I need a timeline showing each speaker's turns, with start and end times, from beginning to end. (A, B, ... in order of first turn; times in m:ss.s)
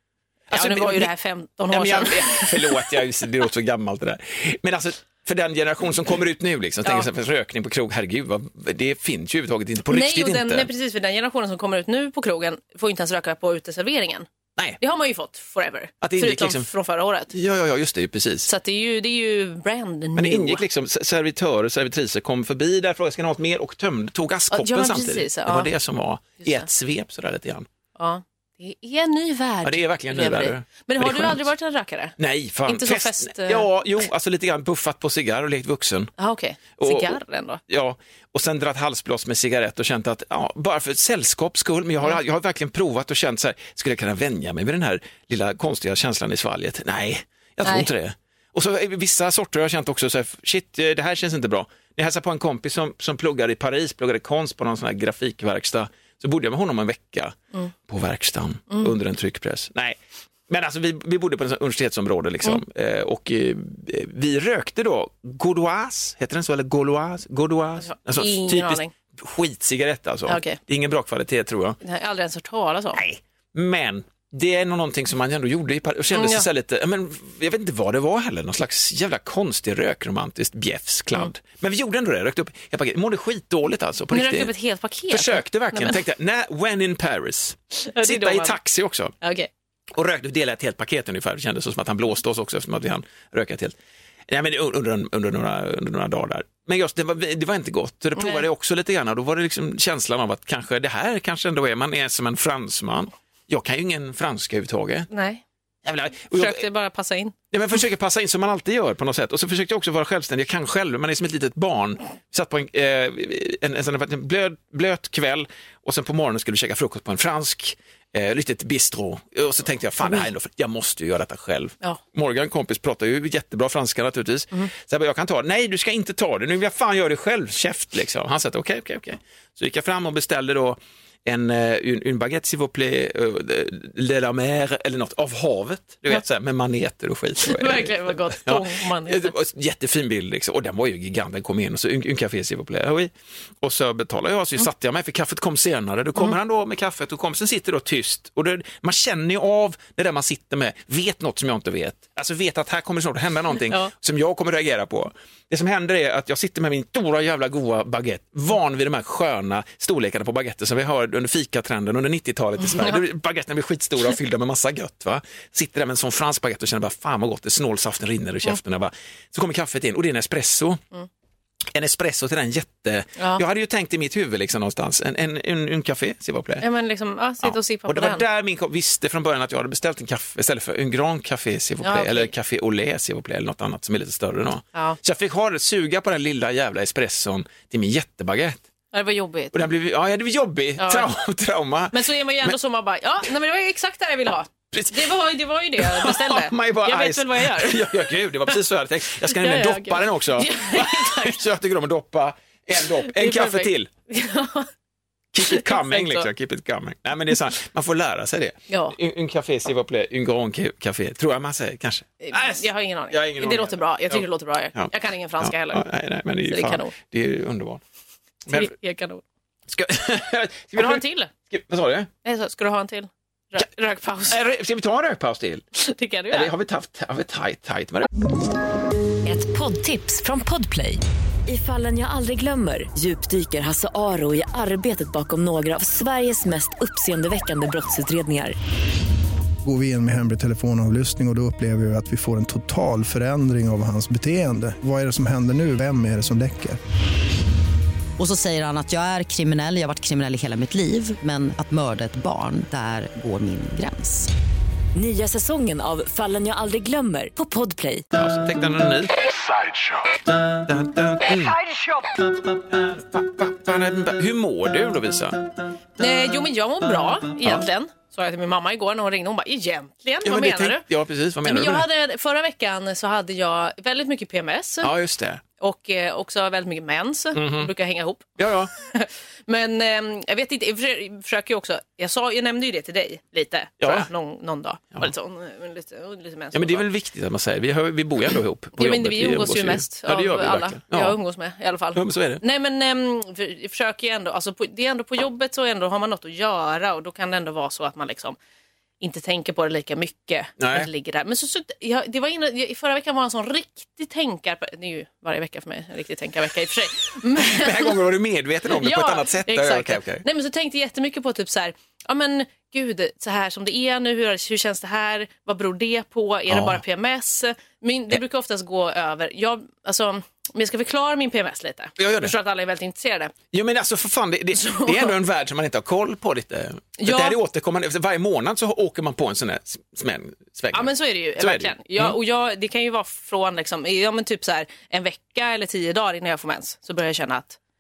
0:00.5-0:01.1 A
0:00.5-0:03.0 B
0:01.7-0:10.7 A
0:09.9-0:14.3 B
0:14.8-0:17.3 B
0:16.0-0:16.7 A
0:17.3-0:18.5 A
0:18.5-0:20.6 B
0:20.2-0:27.7 A
0:24.5-0:25.7 B
0:28.0-0:33.7 B
0:29.6-0:31.5 A
0:32.2-0:36.1 A
0:36.2-0:37.6 B
0:36.8-1:11.8 A
0:47.6-0:47.9 B
1:07.8-1:08.9 B
1:10.3-1:10.6 B
1:11.8-1:13.0 B
1:13.0-1:24.5 A
1:16.1-1:16.5 B
1:24.1-1:26.0 B
1:25.1-1:29.2 A
1:27.9-1:28.6 B
1:29.2-1:29.5 B
1:29.9-1:33.8 A
1:34.3-1:45.1 A
1:38.2-1:38.4 B
1:45.1-1:45.4 B
1:45.8-1:46.6 A
1:46.3-1:47.4 B
1:47.5-2:50.8 A
2:17.4-2:19.4 B
2:51.7-2:56.6 A
2:53.2-2:53.4 B
2:56.6-2:58.2 B
2:57.4-3:08.6 A
3:01.8-3:02.3 B
3:04.7-3:05.0 B
3:08.9-3:09.6 B
3:09.5-3:12.6 A
3:10.8-3:11.1 B
3:11.9-3:18.5 B
3:14.7-3:15.1 A
3:15.8-3:23.9 A
3:19.3-3:21.4 B
3:22.8-3:24.7 B
3:25.3-3:34.2 A
3:25.4-3:26.3 B
3:28.7-3:29.0 B
3:32.2-3:35.8 B
3:34.8-3:37.8 A
3:36.5-3:36.9 B
3:38.5-3:39.2 B
3:39.7-3:42.1 A
3:40.8-3:41.3 B
3:42.2-3:44.4 B
3:44.3-3:45.6 A
3:45.8-3:46.5 B
3:46.3-3:48.1 A
3:49.2-3:58.6 C
3:59.6-4:06.8 D
4:08.2-4:14.3 E
4:14.9-4:18.1 C
4:18.1-4:19.3 A
4:20.5-4:21.8 A
4:22.7-4:25.5 A
4:26.0-4:30.8 B
4:30.2-4:31.9 A
4:31.4-4:34.9 B
4:34.8-4:35.4 A
4:35.6-4:46.8 B
4:37.4-4:37.7 A
4:38.4-4:38.7 A
4:43.8-4:44.1 A
4:46.5-4:51.2 A
4:48.8-4:58.4 B
4:52.0-4:52.4 A
4:59.0-5:08.0 B
5:00.6-5:00.9 A
5:07.4-5:10.2 A
5:08.7-5:23.4 B
5:16.5-5:16.8 A
5:22.0-5:22.4 A
5:23.5-5:32.2 A
5:24.5-5:25.1 B
5:27.0-5:27.4 B
5:30.7-5:37.6 B